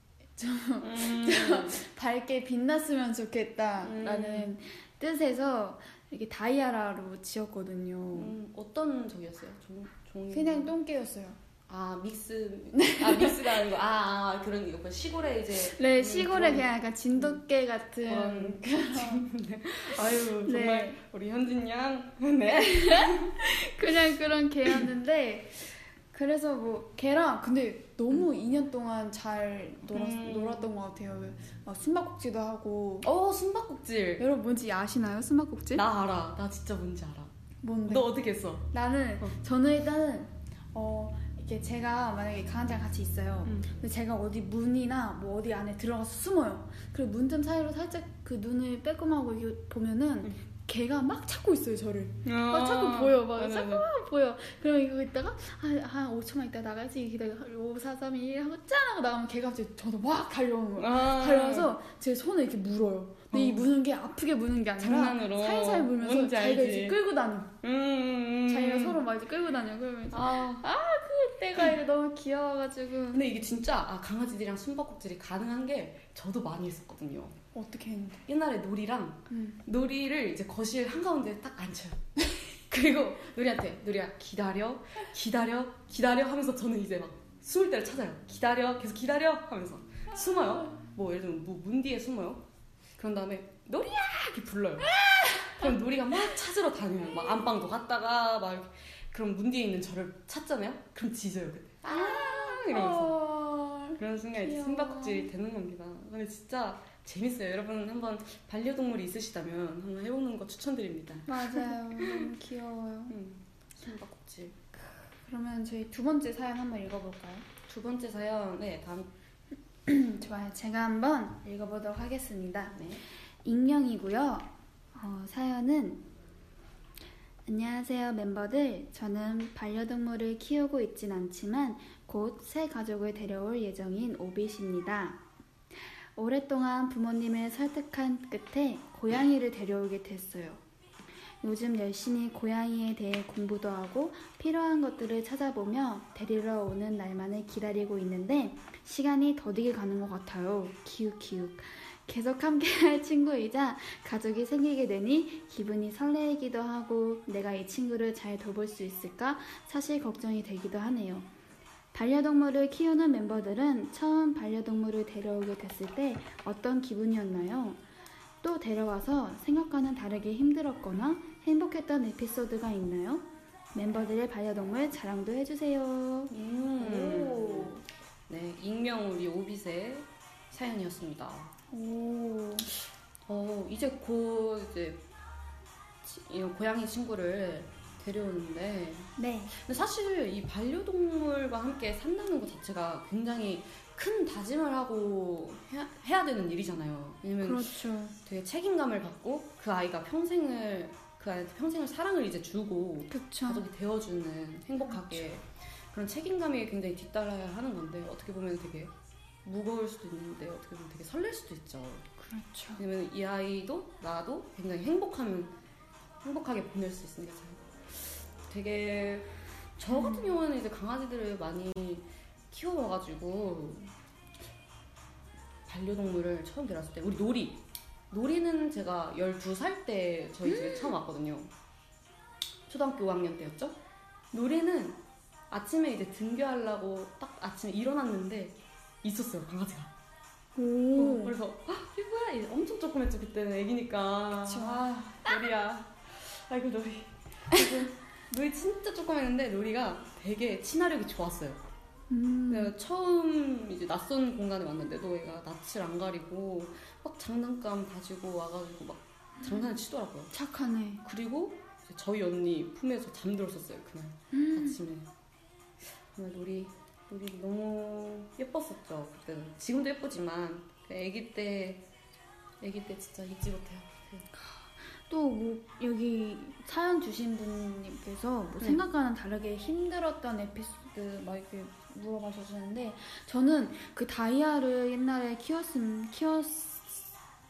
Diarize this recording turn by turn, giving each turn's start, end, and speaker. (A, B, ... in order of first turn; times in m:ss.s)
0:00.4-0:08.3 A
0:00.8-0:01.8 B
0:03.8-0:04.5 B
0:08.1-0:10.7 B
0:10.3-0:11.4 A
0:11.7-0:17.4 B
0:12.7-0:13.6 A
0:15.5-0:19.2 A
0:18.0-0:23.5 B
0:20.2-0:21.0 A
0:22.5-0:33.1 A
0:29.9-0:30.7 B
0:33.0-0:34.2 B
0:34.2-0:35.8 A
0:35.7-0:37.3 B
0:37.6-0:38.1 A
0:37.8-0:38.7 B
0:38.7-1:07.6 A
0:52.2-0:53.9 B
1:00.8-1:01.7 B
1:03.3-1:03.7 B
1:04.8-1:07.0 B
1:07.6-1:09.0 B
1:08.5-1:13.3 A
1:10.1-1:10.6 B
1:13.1-1:17.3 B
1:17.5-1:18.2 A
1:18.3-1:32.4 B
1:19.3-1:19.6 A
1:33.0-1:43.2 B
1:34.9-1:35.7 A
1:41.9-1:45.3 A
1:44.0-1:52.3 B
1:51.2-1:53.2 A
1:53.1-1:54.6 B
1:55.2-1:57.4 A
1:57.7-1:59.1 B
1:59.8-2:02.8 A
2:02.8-2:03.0 B
2:03.4-2:06.0 A
2:07.5-2:15.2 A
2:16.2-2:20.6 A
2:21.4-2:41.3 A
2:41.9-2:47.8 A
2:48.4-2:57.8 A
2:56.3-2:57.7 B
2:58.3-3:01.5 B
3:01.7-3:02.7 A
3:03.2-3:05.0 B
3:06.0-3:28.9 B
3:09.2-3:09.5 A
3:17.4-3:18.2 A
3:23.1-3:23.6 A
3:24.8-3:25.2 A
3:29.4-3:32.0 B
3:32.2-3:32.8 A
3:32.8-3:35.6 B
3:36.2-3:43.9 B
3:39.9-3:40.4 A
3:45.6-3:51.5 B
3:50.5-3:50.9 A
3:52.7-3:53.8 B
3:54.3-3:59.9 B
4:00.6-4:01.4 A
4:01.0-4:11.6 B
4:04.4-4:05.4 A
4:12.1-4:12.7 A
4:12.5-4:20.3 B
4:20.3-4:21.0 A
4:21.0-4:25.1 B
4:24.3-4:24.8 A
4:26.1-4:31.8 B
4:32.6-4:34.2 B
4:34.3-4:47.0 A